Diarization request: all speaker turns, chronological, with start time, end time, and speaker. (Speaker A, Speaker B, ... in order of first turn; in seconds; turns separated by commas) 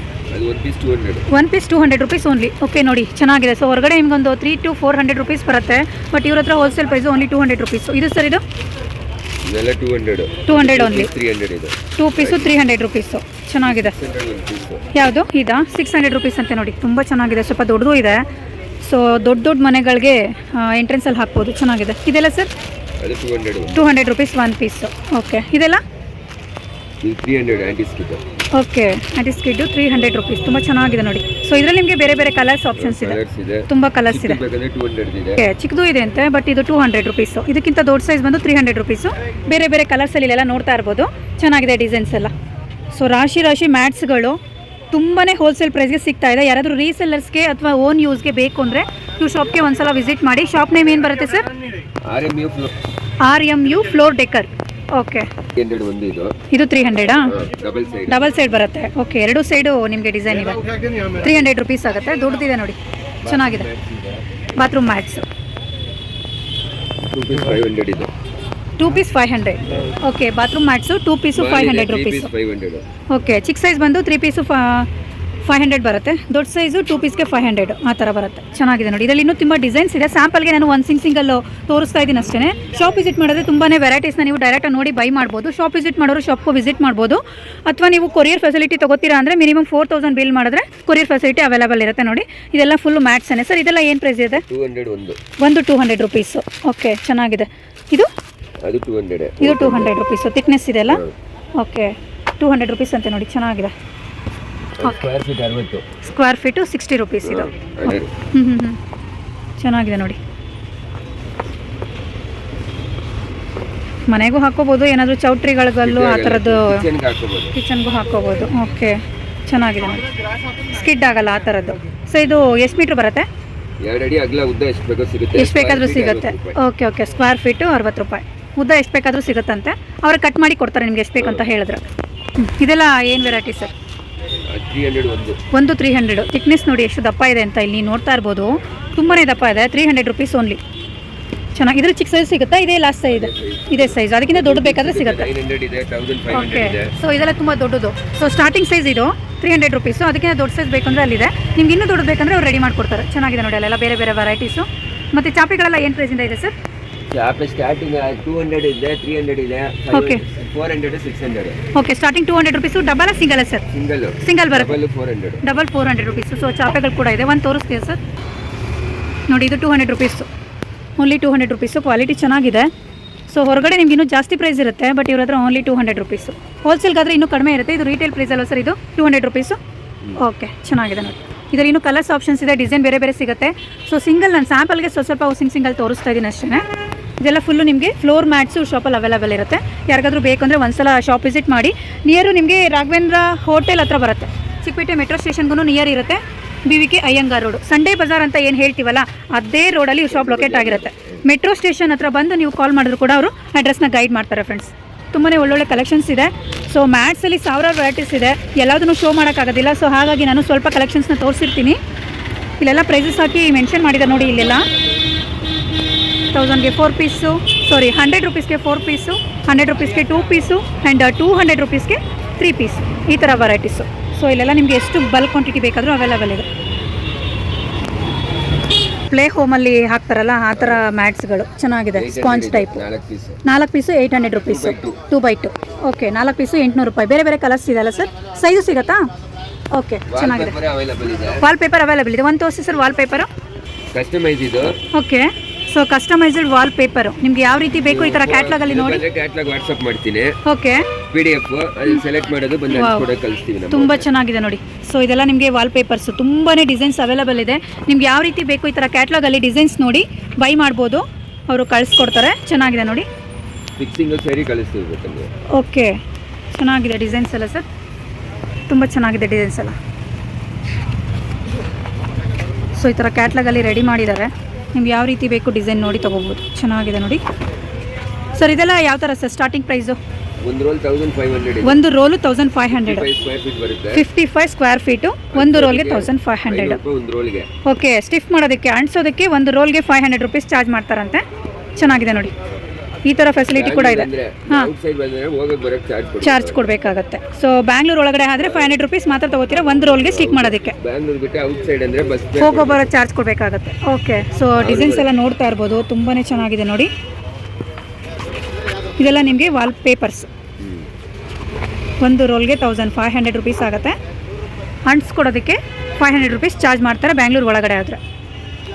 Speaker A: 0.3-1.3, Speaker B: 1.3-8.4, Speaker A: 9.5-12.5, Speaker B: 10.5-11.1, Speaker B: 12.0-14.0, Speaker A: 13.7-14.9, Speaker B: 14.9-18.2, Speaker B: 18.8-22.5, Speaker A: 23.0-23.8, Speaker B: 23.7-25.8, Speaker A: 27.0-28.2, Speaker B: 28.6-34.4, Speaker A: 32.8-35.4, Speaker B: 35.4-42.3, Speaker B: 42.9-44.4, Speaker B: 44.9-51.5, Speaker A: 52.1-52.7, Speaker B: 53.2-55.3, Speaker A: 55.6-56.4, Speaker B: 56.5-57.4, Speaker A: 57.2-58.4, Speaker B: 58.1-60.6, Speaker B: 61.2-63.7, Speaker A: 63.2-64.2, Speaker B: 64.6-65.2, Speaker A: 67.1-68.1, Speaker B: 68.8-72.3, Speaker A: 71.3-72.8, Speaker B: 73.1-74.9, Speaker B: 75.5-94.4, Speaker A: 94.3-95.2, Speaker B: 95.4-98.1, Speaker A: 98.6-100.0, Speaker B: 99.4-101.0, Speaker A: 100.9-101.1, Speaker B: 101.6-103.7, Speaker A: 104.8-105.8, Speaker B: 104.8-105.1, Speaker B: 106.0-108.8, Speaker A: 107.2-108.1, Speaker B: 109.6-110.2, Speaker B: 114.1-116.8, Speaker A: 115.8-117.5, Speaker B: 117.5-120.0, Speaker B: 120.6-123.3, Speaker A: 123.8-126.6, Speaker B: 125.3-131.9, Speaker A: 131.2-131.4, Speaker B: 132.4-133.7, Speaker A: 134.5-135.4, Speaker B: 135.5-140.6, Speaker B: 141.6-145.3, Speaker A: 143.1-146.9, Speaker B: 146.3-156.5, Speaker A: 157.1-161.7, Speaker B: 159.9-160.2, Speaker B: 161.7-163.7, Speaker A: 163.7-165.4, Speaker B: 164.2-164.8, Speaker B: 165.4-168.0, Speaker B: 169.3-170.3, Speaker B: 171.0-172.7, Speaker B: 173.3-179.6, Speaker B: 180.2-186.6, Speaker B: 187.2-211.8, Speaker A: 200.1-201.3, Speaker B: 212.6-214.7, Speaker B: 216.3-226.5, Speaker B: 229.1-232.8, Speaker A: 230.5-230.8, Speaker A: 231.9-233.4, Speaker B: 233.4-239.1, Speaker A: 234.4-235.0, Speaker B: 239.7-240.6, Speaker A: 240.1-241.4, Speaker B: 241.4-243.3, Speaker A: 243.9-244.8, Speaker B: 244.9-249.0, Speaker A: 247.7-250.3, Speaker B: 250.4-250.9, Speaker A: 251.1-254.1, Speaker B: 252.7-253.1, Speaker B: 253.7-263.1, Speaker A: 263.8-265.3, Speaker B: 265.6-265.9, Speaker B: 266.5-267.7, Speaker B: 268.7-269.8, Speaker B: 272.8-277.2, Speaker B: 278.4-280.0, Speaker A: 280.4-281.8, Speaker B: 281.6-283.1, Speaker A: 282.7-284.1, Speaker B: 283.9-286.8, Speaker A: 285.3-287.5, Speaker B: 287.6-291.2, Speaker B: 291.8-292.3, Speaker B: 293.1-294.7, Speaker A: 293.5-296.7, Speaker B: 296.2-300.8, Speaker A: 298.4-298.8, Speaker A: 299.8-302.9, Speaker B: 302.4-306.9, Speaker A: 304.6-305.1, Speaker B: 309.0-310.3, Speaker A: 310.6-310.9, Speaker B: 312.0-313.9, Speaker B: 314.9-318.0